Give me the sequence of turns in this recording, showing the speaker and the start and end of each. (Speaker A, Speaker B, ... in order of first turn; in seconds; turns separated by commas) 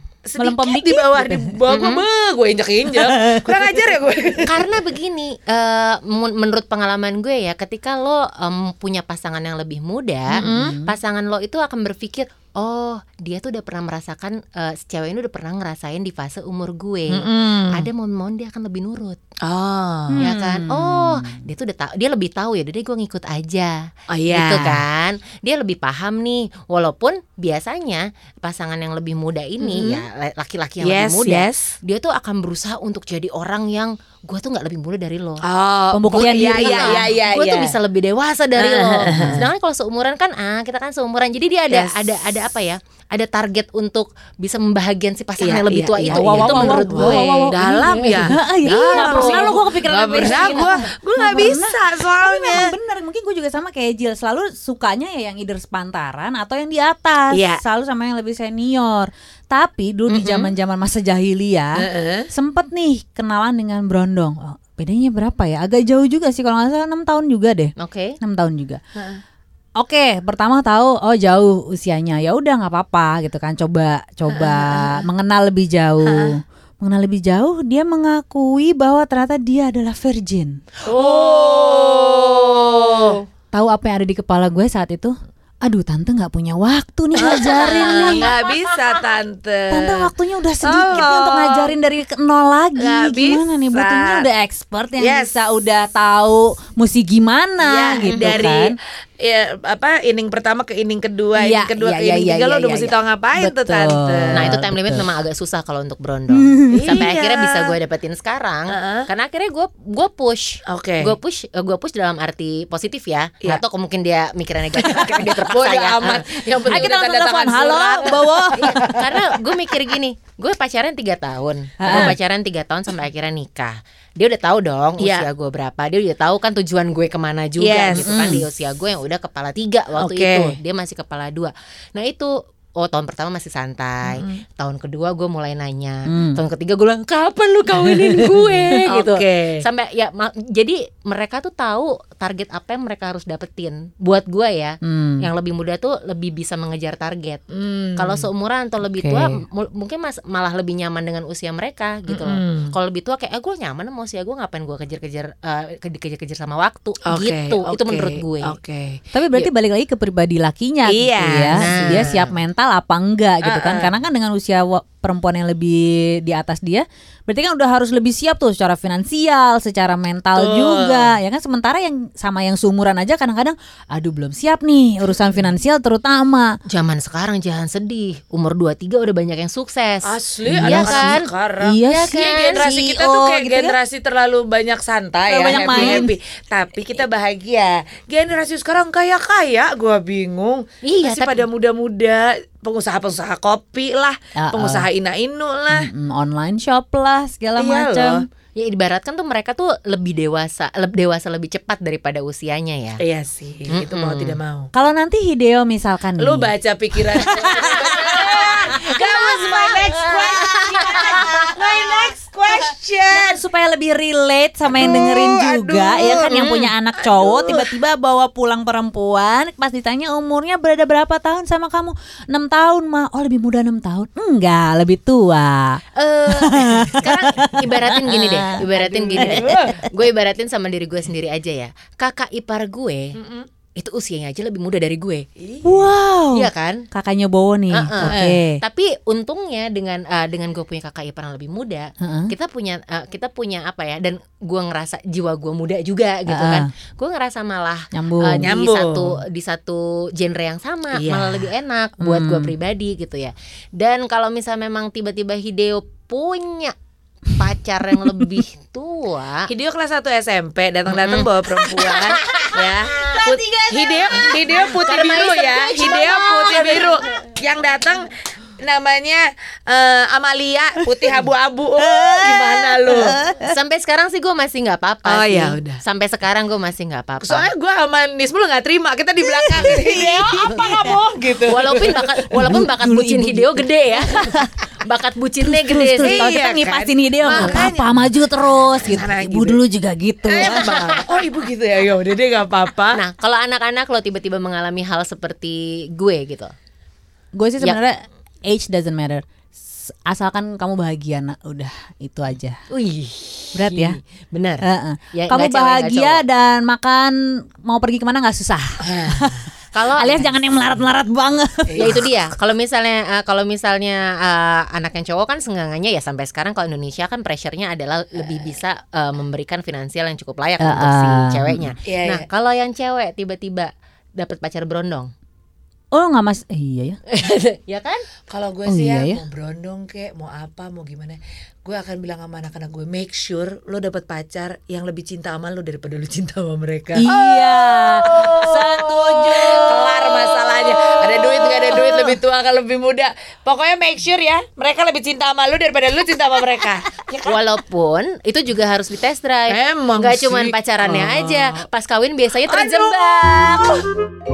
Speaker A: 0.2-4.8, Speaker B: 0.4-1.6, Speaker C: 1.7-2.1, Speaker B: 3.0-3.8, Speaker C: 4.5-19.2, Speaker A: 10.3-10.8, Speaker B: 10.4-11.0, Speaker A: 17.1-17.9, Speaker A: 19.4-20.2, Speaker B: 20.1-21.5, Speaker C: 20.2-35.4, Speaker A: 24.1-24.9, Speaker A: 29.6-30.1, Speaker A: 30.8-31.8, Speaker A: 35.4-37.8, Speaker B: 35.9-37.0, Speaker C: 36.1-50.8, Speaker A: 38.5-39.5, Speaker B: 39.1-39.4, Speaker A: 41.7-42.3, Speaker A: 45.4-52.8, Speaker B: 46.1-61.8, Speaker A: 57.3-57.6, Speaker C: 60.1-60.5, Speaker A: 61.8-62.3, Speaker B: 62.3-68.8, Speaker C: 67.8-68.2, Speaker A: 69.0-69.2, Speaker B: 69.8-80.6, Speaker A: 74.3-75.0, Speaker A: 76.0-76.4, Speaker A: 80.9-83.2, Speaker C: 80.9-83.2, Speaker B: 83.5-88.3, Speaker A: 87.2-90.1, Speaker C: 87.2-88.3, Speaker B: 89.7-98.8, Speaker A: 90.6-91.8, Speaker A: 92.8-94.3, Speaker A: 95.0-95.4, Speaker A: 97.6-104.6, Speaker C: 98.0-98.5, Speaker B: 101.4-102.6, Speaker C: 101.8-102.9, Speaker B: 103.4-105.1, Speaker C: 104.3-117.0, Speaker B: 106.3-107.0, Speaker A: 106.7-107.8, Speaker A: 108.7-109.1, Speaker A: 110.7-111.2, Speaker A: 114.7-119.8, Speaker B: 116.7-118.8, Speaker C: 118.0-147.4, Speaker B: 121.8-122.2, Speaker A: 121.8-122.1, Speaker A: 125.0-125.3, Speaker A: 127.6-128.4, Speaker B: 127.9-128.4, Speaker A: 130.0-130.6, Speaker A: 134.1-134.4, Speaker B: 136.1-136.4, Speaker A: 137.9-139.7, Speaker B: 144.8-145.3, Speaker A: 147.5-148.3, Speaker C: 148.0-158.6, Speaker A: 148.8-149.4, Speaker A: 152.1-152.7, Speaker A: 157.1-159.5, Speaker B: 159.1-176.6, Speaker A: 160.9-162.1, Speaker C: 161.6-162.4, Speaker A: 163.4-163.9, Speaker A: 170.3-171.2, Speaker C: 176.7-181.3, Speaker A: 180.0-195.9, Speaker B: 180.5-183.7, Speaker C: 181.9-182.7, Speaker B: 185.3-186.1, Speaker C: 185.5-186.1, Speaker C: 190.8-191.5, Speaker B: 194.4-194.9, Speaker B: 195.7-198.2, Speaker A: 197.6-198.2, Speaker C: 198.6-203.0, Speaker A: 203.0-204.7, Speaker C: 203.7-204.4, Speaker B: 204.7-206.5, Speaker A: 206.2-213.4, Speaker C: 207.6-211.7, Speaker B: 213.1-228.6, Speaker A: 214.7-216.4, Speaker C: 216.3-216.7, Speaker A: 217.0-217.7, Speaker C: 226.0-233.2, Speaker A: 228.6-229.8, Speaker B: 229.2-229.9, Speaker A: 233.2-233.5, Speaker C: 233.8-235.3, Speaker A: 235.4-235.9, Speaker B: 235.6-238.6, Speaker C: 236.3-236.9, Speaker C: 237.7-256.7, Speaker A: 238.0-238.4, Speaker B: 242.0-242.3, Speaker B: 246.3-246.7, Speaker B: 247.9-248.5, Speaker A: 248.4-249.2, Speaker A: 250.9-251.5, Speaker B: 252.0-252.6, Speaker C: 257.4-259.5, Speaker A: 259.5-273.2, Speaker C: 260.9-267.1, Speaker B: 271.8-273.6, Speaker C: 273.4-277.5, Speaker A: 275.1-275.8, Speaker A: 277.2-282.2, Speaker B: 279.2-281.0, Speaker C: 281.5-286.3, Speaker B: 282.3-284.5, Speaker B: 285.4-290.6, Speaker A: 286.0-289.6, Speaker C: 287.3-287.6, Speaker A: 290.2-293.0, Speaker C: 290.4-291.2, Speaker C: 292.9-296.5, Speaker B: 297.4-299.2, Speaker B: 299.8-302.6, Speaker C: 302.7-306.2, Speaker B: 303.5-304.0, Speaker B: 304.6-312.0, Speaker A: 308.9-309.3, Speaker C: 309.7-310.4, Speaker A: 311.7-312.1, Speaker C: 311.8-325.1, Speaker B: 320.6-321.8, Speaker A: 321.9-322.2, Speaker B: 325.9-327.0, Speaker C: 327.1-328.1, Speaker A: 328.3-347.4, Speaker B: 328.7-329.2, Speaker B: 337.0-340.5, Speaker B: 341.4-342.1, Speaker C: 347.3-353.7, Speaker A: 349.5-351.6, Speaker A: 352.4-353.8